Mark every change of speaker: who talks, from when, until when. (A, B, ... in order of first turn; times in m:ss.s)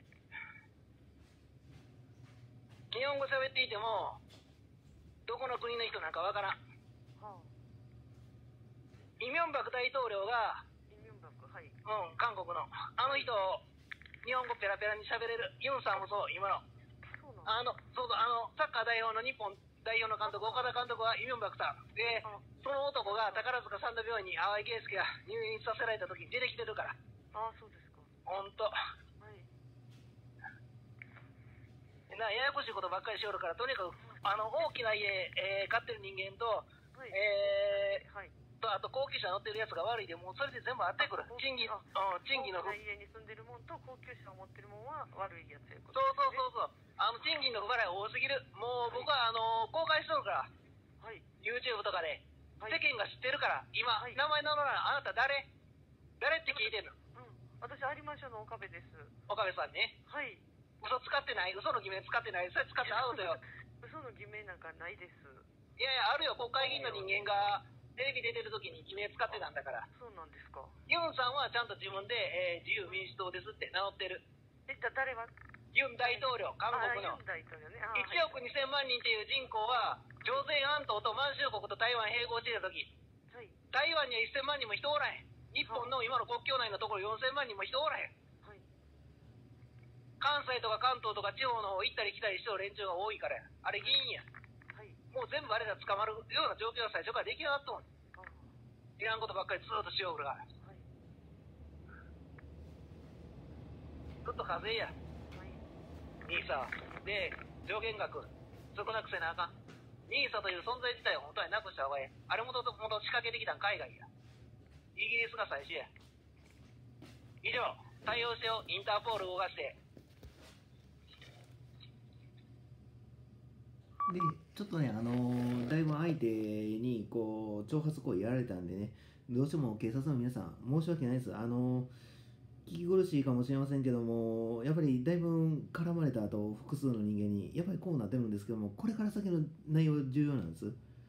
0:02.9-0:04.2 A
0:05.3-0:06.6 A
0:07.2-0:07.5 B
0:09.2-0:10.6 A
0:10.9-0:11.8 B
0:11.8-0:13.6 A
0:14.2-0:16.6 A
0:17.1-0:17.6 B
0:17.5-0:27.0 A
0:20.2-0:20.7 B
0:22.2-0:23.5 B
0:27.3-0:28.1 B
0:28.2-0:28.7 A
0:29.2-0:29.5 B
0:32.1-0:38.0 A
0:36.9-0:38.3 B
0:38.6-0:42.7 A
0:41.0-0:46.4 B
0:45.9-0:50.5 A
0:51.0-0:51.2 B
0:51.4-0:55.5 A
0:56.2-0:56.9 A
0:57.1-0:59.1 B
0:59.3-1:00.0 A
1:00.0-1:00.4 B
1:00.8-1:03.4 A
1:02.9-1:05.5 B
1:05.8-1:09.9 A
1:06.6-1:07.1 B
1:09.9-1:10.8 B
1:10.9-1:14.2 A
1:14.7-1:15.3 B
1:15.7-1:17.2 A
1:16.0-1:18.3 B
1:17.9-1:22.9 A
1:23.3-1:23.6 B
1:23.7-1:28.1 A
1:25.7-1:25.9 B
1:30.2-1:34.2 A
1:34.7-1:35.0 B
1:35.1-1:37.8 A
1:38.1-1:38.5 B
1:39.0-1:40.4 A
1:40.6-1:40.9 B
1:44.2-1:44.9 A
1:45.3-1:45.6 B
1:46.2-1:49.5 A
1:50.1-1:54.1 A
1:55.0-1:55.9 A
1:57.4-1:59.8 A
2:04.1-2:11.9 C
2:12.6-2:20.8 C